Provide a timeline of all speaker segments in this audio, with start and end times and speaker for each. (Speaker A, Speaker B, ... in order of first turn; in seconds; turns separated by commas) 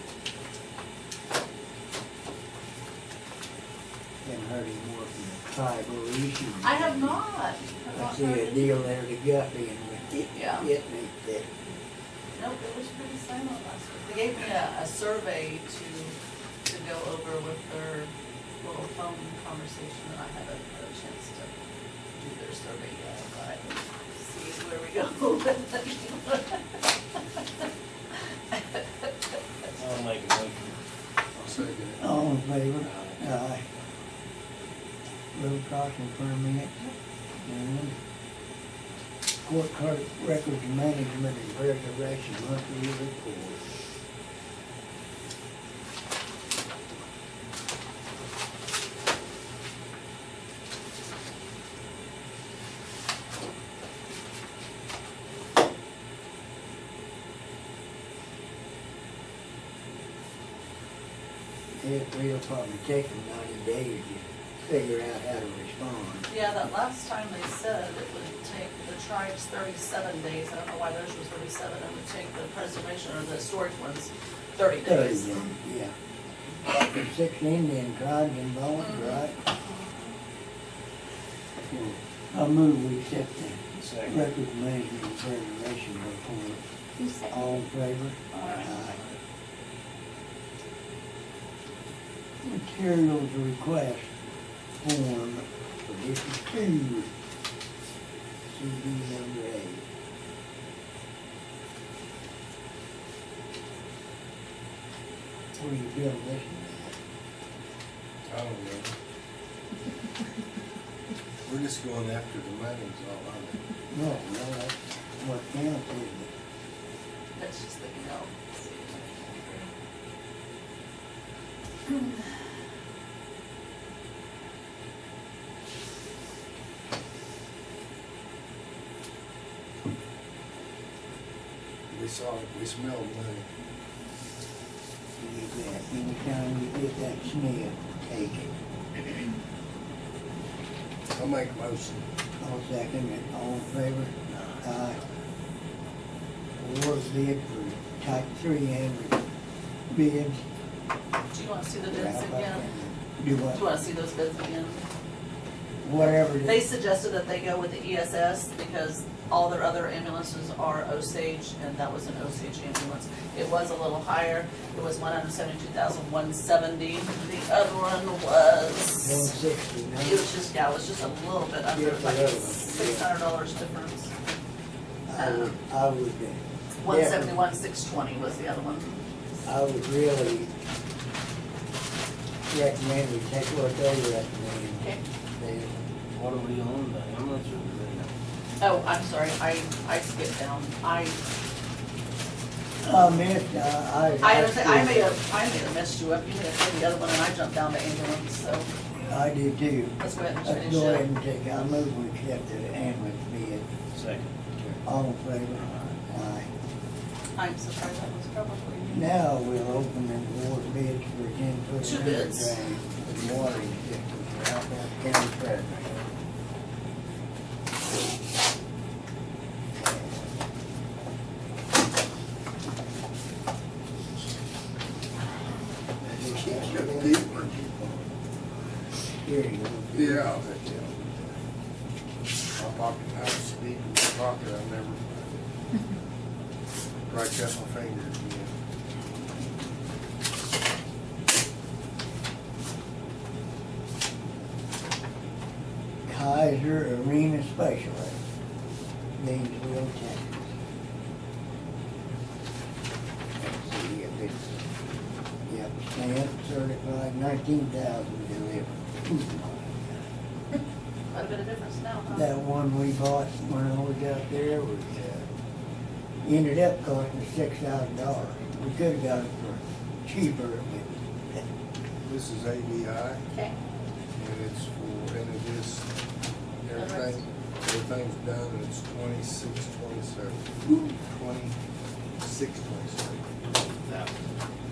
Speaker A: 4.2-7.2, Speaker B: 6.6-8.8, Speaker A: 7.9-11.5, Speaker B: 10.3-10.7, Speaker B: 12.3-21.5, Speaker B: 22.2-27.2, Speaker B: 28.5-29.1, Speaker C: 29.7-30.8, Speaker D: 31.4-32.0, Speaker A: 32.0-33.6, Speaker C: 32.8-33.3, Speaker A: 35.3-36.7, Speaker A: 37.4-38.0, Speaker A: 39.4-43.7, Speaker A: 61.8-66.3, Speaker B: 66.3-75.5, Speaker A: 74.8-75.9, Speaker A: 76.7-79.4, Speaker B: 78.8-79.8, Speaker A: 81.7-89.0, Speaker C: 83.8-84.3, Speaker B: 88.4-88.8, Speaker A: 92.4-94.2, Speaker A: 94.8-97.1, Speaker A: 98.5-99.8, Speaker A: 105.5-107.0, Speaker D: 108.3-108.9, Speaker D: 111.5-113.6, Speaker A: 113.9-116.3, Speaker B: 117.4-119.7, Speaker B: 121.9-122.2, Speaker D: 131.9-133.5, Speaker A: 135.2-138.6, Speaker D: 141.1-142.1, Speaker A: 142.4-145.0, Speaker A: 146.6-149.2, Speaker A: 149.9-150.4, Speaker B: 151.3-152.7, Speaker A: 151.9-153.6, Speaker B: 153.5-154.8, Speaker A: 155.8-156.6, Speaker B: 156.4-169.3, Speaker A: 169.0-170.3, Speaker B: 170.0-174.1, Speaker A: 171.7-173.1, Speaker A: 175.1-177.4, Speaker B: 175.2-175.6, Speaker B: 176.8-179.1, Speaker A: 179.4-180.5, Speaker A: 182.5-185.7, Speaker C: 186.1-188.1, Speaker B: 188.6-191.2, Speaker A: 192.8-195.2, Speaker B: 194.2-198.7, Speaker A: 199.0-203.7, Speaker B: 200.0-201.1, Speaker C: 203.9-204.8, Speaker A: 204.8-206.5, Speaker C: 205.5-205.9, Speaker B: 207.4-209.1, Speaker A: 208.9-216.0, Speaker B: 211.8-212.6, Speaker A: 219.8-220.4, Speaker A: 226.0-228.1, Speaker D: 226.4-227.5, Speaker A: 229.1-230.3, Speaker D: 229.9-231.4, Speaker D: 232.6-235.5, Speaker D: 237.1-238.5, Speaker A: 246.1-248.2, Speaker A: 249.2-250.5, Speaker A: 253.4-254.5, Speaker A: 255.5-260.1, Speaker B: 261.1-262.4, Speaker A: 262.1-265.0, Speaker D: 264.9-265.3, Speaker A: 266.2-271.4, Speaker D: 272.0-273.3, Speaker D: 274.1-275.9, Speaker D: 276.6-281.6, Speaker B: 276.7-277.2, Speaker D: 282.2-283.3, Speaker C: 283.8-284.2